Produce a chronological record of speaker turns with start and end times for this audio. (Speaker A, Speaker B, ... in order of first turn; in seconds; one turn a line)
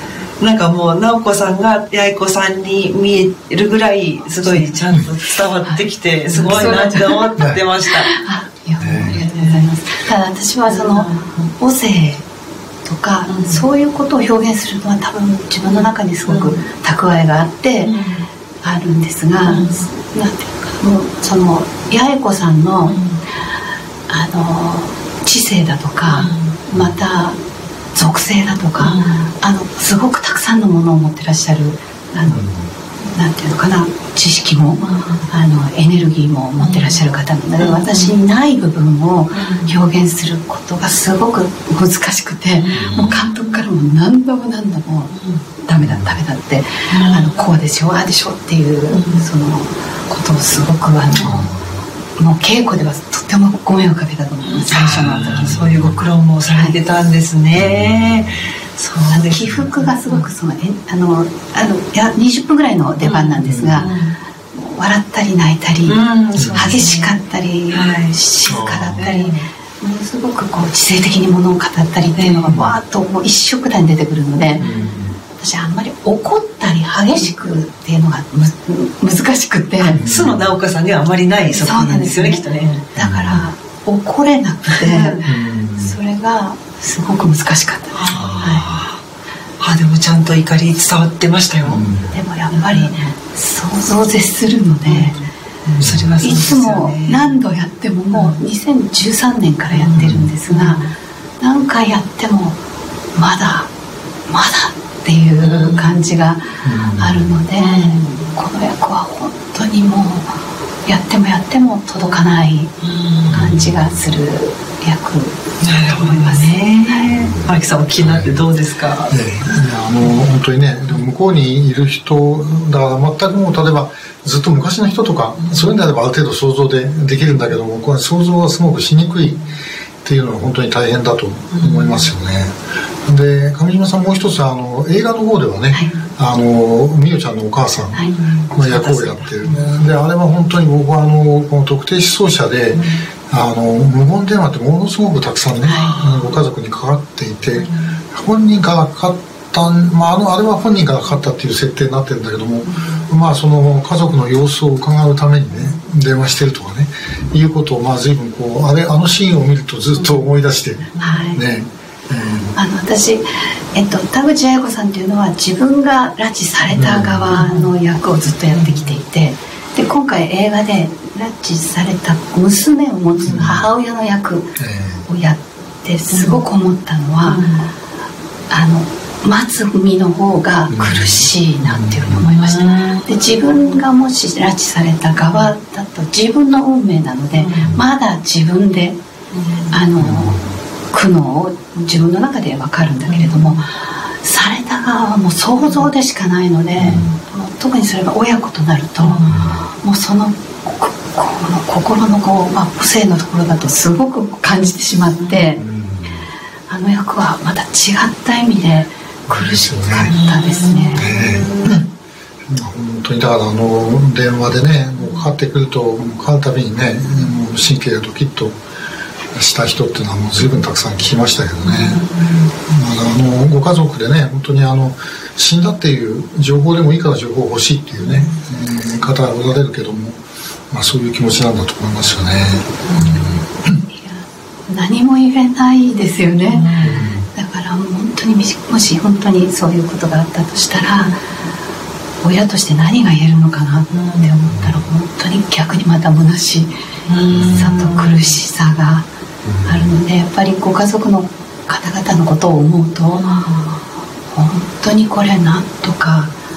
Speaker A: 0.4-8.1
Speaker B: 4.4-4.8
Speaker B: 5.6-7.3
Speaker C: 7.4-7.6
Speaker B: 7.9-12.2
Speaker C: 8.8-9.2
Speaker A: 9.1-9.7
Speaker A: 10.7-11.5
Speaker B: 12.8-17.9
Speaker A: 13.3-13.6
Speaker A: 15.7-16.6
Speaker A: 17.8-18.3
Speaker B: 18.6-23.0
Speaker A: 19.4-19.9
Speaker A: 22.9-23.2
Speaker B: 24.1-27.4
Speaker A: 26.1-26.6
Speaker B: 27.9-32.5
Speaker A: 28.8-29.3
Speaker C: 32.2-32.7
Speaker B: 33.0-51.5
Speaker A: 34.8-35.3
Speaker A: 36.6-37.0
Speaker A: 37.6-38.1
Speaker A: 39.3-39.8
Speaker A: 42.6-43.6
Speaker C: 42.7-43.1
Speaker A: 45.1-45.4
Speaker C: 45.8-46.1
Speaker A: 46.9-47.5
Speaker A: 48.9-49.3
Speaker A: 51.1-51.4
Speaker C: 51.1-51.8
Speaker B: 52.2-55.7
Speaker A: 54.4-60.3
Speaker C: 54.7-56.0
Speaker C: 57.5-58.4
Speaker B: 59.1-63.9
Speaker A: 63.0-64.2
Speaker C: 63.4-63.9
Speaker B: 64.5-66.0
Speaker A: 65.8-67.2
Speaker C: 66.3-66.8
Speaker B: 66.5-74.7
Speaker A: 67.7-68.2
Speaker C: 68.5-69.1
Speaker A: 69.0-69.5
Speaker A: 72.2-72.5
Speaker A: 74.6-75.0
Speaker C: 74.6-75.2
Speaker B: 75.4-80.0
Speaker A: 79.8-82.9
Speaker C: 79.9-80.5
Speaker B: 81.5-88.6
Speaker C: 83.0-83.4
Speaker A: 84.7-85.2
Speaker C: 85.2-86.0
Speaker A: 87.9-89.0
Speaker C: 88.1-88.7
Speaker A: 89.6-91.8
Speaker C: 91.6-92.1
Speaker B: 92.1-95.2
Speaker A: 92.5-93.1
Speaker A: 94.8-97.4
Speaker C: 95.8-96.2
Speaker B: 96.2-100.8
Speaker A: 98.1-98.4
Speaker A: 99.7-100.9
Speaker C: 99.9-100.3
Speaker B: 101.4-102.6
Speaker B: 103.1-103.7
Speaker B: 104.3-112.7
Speaker A: 105.4-106.0
Speaker C: 106.6-107.4
Speaker A: 107.6-108.3
Speaker A: 112.8-113.5
Speaker C: 113.3-114.1
Speaker B: 113.3-117.1
Speaker A: 115.6-119.2
Speaker C: 117.1-118.4
Speaker C: 119.1-129.5
Speaker A: 125.4-125.8
Speaker A: 129.2-129.5
Speaker C: 130.0-162.6
Speaker A: 131.5-132.1
Speaker A: 138.0-139.9
Speaker A: 142.7-143.0
Speaker B: 145.6-145.9
Speaker A: 145.6-146.3
Speaker A: 147.5-148.0
Speaker A: 159.9-160.2
Speaker A: 160.9-161.4
Speaker B: 161.0-161.4
Speaker B: 162.5-174.5
Speaker C: 166.7-167.4
Speaker A: 167.3-167.7
Speaker A: 168.5-169.0
Speaker C: 173.2-173.7
Speaker C: 174.6-175.1
Speaker B: 175.1-177.4
Speaker A: 176.1-176.4
Speaker A: 177.2-177.7
Speaker B: 178.5-189.0
Speaker C: 180.7-182.3
Speaker A: 182.3-183.8
Speaker A: 185.1-185.5
Speaker A: 187.4-187.8
Speaker A: 189.3-189.8
Speaker B: 189.7-190.4
Speaker C: 190.0-190.6
Speaker B: 190.9-205.6
Speaker A: 193.1-193.6
Speaker C: 196.8-197.1
Speaker A: 196.8-197.2
Speaker A: 199.0-199.5
Speaker C: 199.3-199.7
Speaker A: 205.2-205.6
Speaker C: 205.6-206.2
Speaker B: 206.7-211.3
Speaker C: 209.3-210.2
Speaker A: 210.1-211.8
Speaker C: 210.9-211.8
Speaker C: 212.5-218.6
Speaker A: 215.0-215.3
Speaker C: 219.3-222.1
Speaker A: 221.6-222.5
Speaker C: 222.7-233.8
Speaker A: 228.0-228.4
Speaker A: 232.9-233.4
Speaker B: 233.9-236.7
Speaker A: 236.4-237.1
Speaker C: 236.8-237.3
Speaker B: 237.3-241.2
Speaker B: 242.2-246.7
Speaker A: 243.9-244.4
Speaker C: 244.5-244.8
Speaker A: 247.1-248.2
Speaker B: 247.3-249.1
Speaker C: 247.3-247.8
Speaker C: 249.4-249.9
Speaker B: 249.6-256.3
Speaker A: 253.1-253.8